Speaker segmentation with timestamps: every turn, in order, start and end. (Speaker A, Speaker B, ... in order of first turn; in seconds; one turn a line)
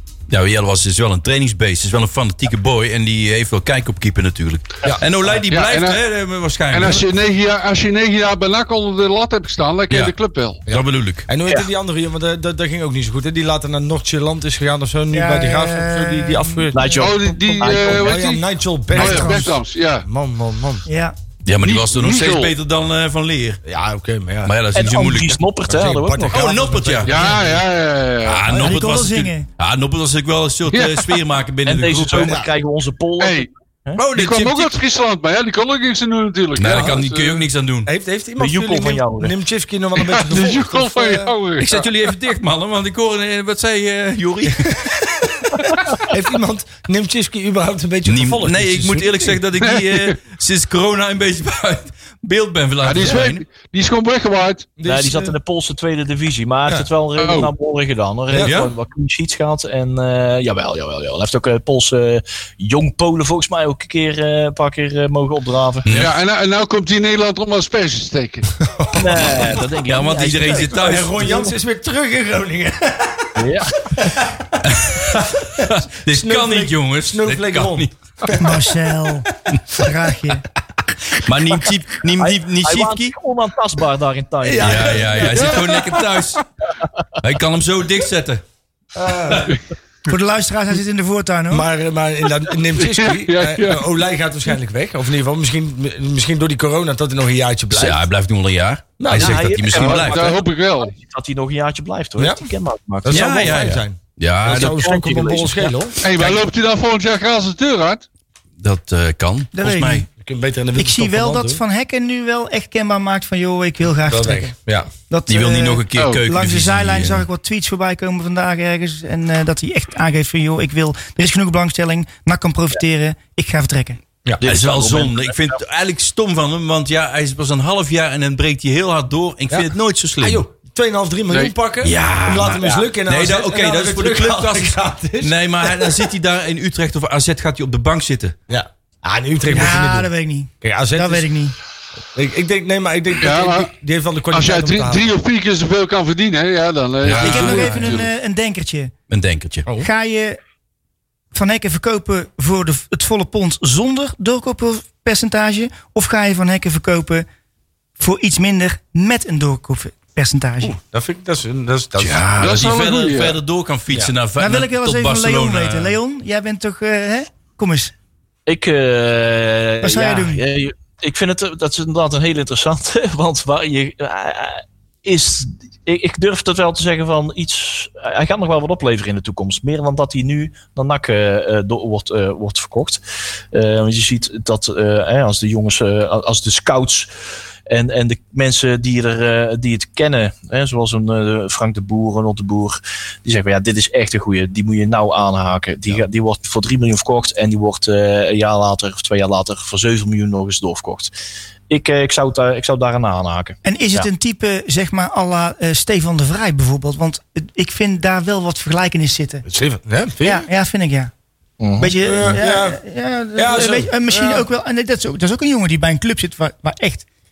Speaker A: 0.3-7.0
Speaker B: 5.5-6.0
Speaker B: 6.7-10.6
Speaker A: 9.9-10.1
Speaker A: 10.7-11.3
Speaker C: 10.7-20.9
Speaker D: 15.1-16.9
Speaker E: 16.7-18.2
Speaker B: 17.0-20.0
Speaker D: 18.9-19.6
Speaker D: 20.9-21.1
Speaker A: 21.4-23.6
Speaker B: 21.6-22.5
Speaker C: 23.6-24.5
Speaker A: 24.4-25.4
Speaker E: 24.7-26.6
Speaker C: 25.7-27.6
Speaker A: 26.3-27.5
Speaker B: 27.0-28.5
Speaker A: 28.2-32.4
Speaker D: 28.5-29.5
Speaker B: 30.7-31.2
Speaker E: 31.6-34.0
Speaker C: 32.1-32.5
Speaker B: 33.2-33.5
Speaker A: 34.0-34.7
Speaker B: 34.1-37.4
Speaker A: 36.6-37.9
Speaker C: 36.6-37.0
Speaker C: 37.9-41.3
Speaker E: 38.4-39.3
Speaker B: 40.0-41.8
Speaker A: 41.6-45.8
Speaker C: 44.4-44.7
Speaker C: 46.0-49.4
Speaker A: 48.0-53.4
Speaker B: 49.6-50.1
Speaker B: 52.8-54.7
Speaker C: 54.8-55.4
Speaker E: 54.8-65.9
Speaker B: 57.1-57.5
Speaker C: 58.3-58.6
Speaker A: 58.3-58.7
Speaker B: 65.9-68.5
Speaker C: 68.6-69.6
Speaker E: 68.9-71.5
Speaker A: 69.8-71.3
Speaker C: 70.6-73.3
Speaker E: 73.4-73.8
Speaker C: 73.9-74.6
Speaker A: 74.6-77.9
Speaker C: 75.2-77.9
Speaker D: 78.3-80.4
Speaker A: 81.1-83.1
Speaker E: 82.2-85.5
Speaker C: 84.4-85.8
Speaker A: 84.6-86.4
Speaker A: 87.2-88.4
Speaker C: 88.9-89.6
Speaker D: 90.1-91.7
Speaker C: 91.5-98.0
Speaker B: 92.8-93.9
Speaker A: 97.7-100.3
Speaker C: 99.0-100.0
Speaker E: 99.1-103.6
Speaker B: 99.9-100.9
Speaker C: 102.2-102.5
Speaker C: 103.0-106.3
Speaker A: 103.1-104.8
Speaker E: 104.5-105.8
Speaker B: 106.0-108.0
Speaker A: 108.6-110.0
Speaker D: 109.5-110.1
Speaker C: 110.2-111.6
Speaker D: 110.7-114.5
Speaker C: 114.1-114.9
Speaker D: 115.1-124.0
Speaker A: 115.3-117.2
Speaker B: 116.0-116.2
Speaker E: 124.4-125.6
Speaker A: 124.4-130.4
Speaker C: 129.5-136.0
Speaker A: 131.8-138.3
Speaker C: 138.5-141.3
Speaker D: 139.4-141.5
Speaker C: 142.1-145.1
Speaker B: 143.2-143.7
Speaker B: 144.3-148.1
Speaker A: 147.0-148.0
Speaker D: 147.2-148.9
Speaker A: 149.1-149.6
Speaker D: 149.8-150.4
Speaker D: 151.3-157.2
Speaker D: 158.0-160.8
Speaker C: 160.6-162.3
Speaker A: 162.0-166.0
Speaker B: 162.4-163.4
Speaker D: 164.4-167.9
Speaker E: 168.5-183.0
Speaker D: 169.8-170.4
Speaker E: 183.5-187.1
Speaker E: 187.7-201.1
Speaker E: 201.7-203.6
Speaker D: 203.6-209.4
Speaker C: 209.4-210.5
Speaker D: 210.2-211.1
Speaker E: 211.6-212.3
Speaker D: 211.8-217.1
Speaker C: 212.0-212.8
Speaker C: 213.3-214.5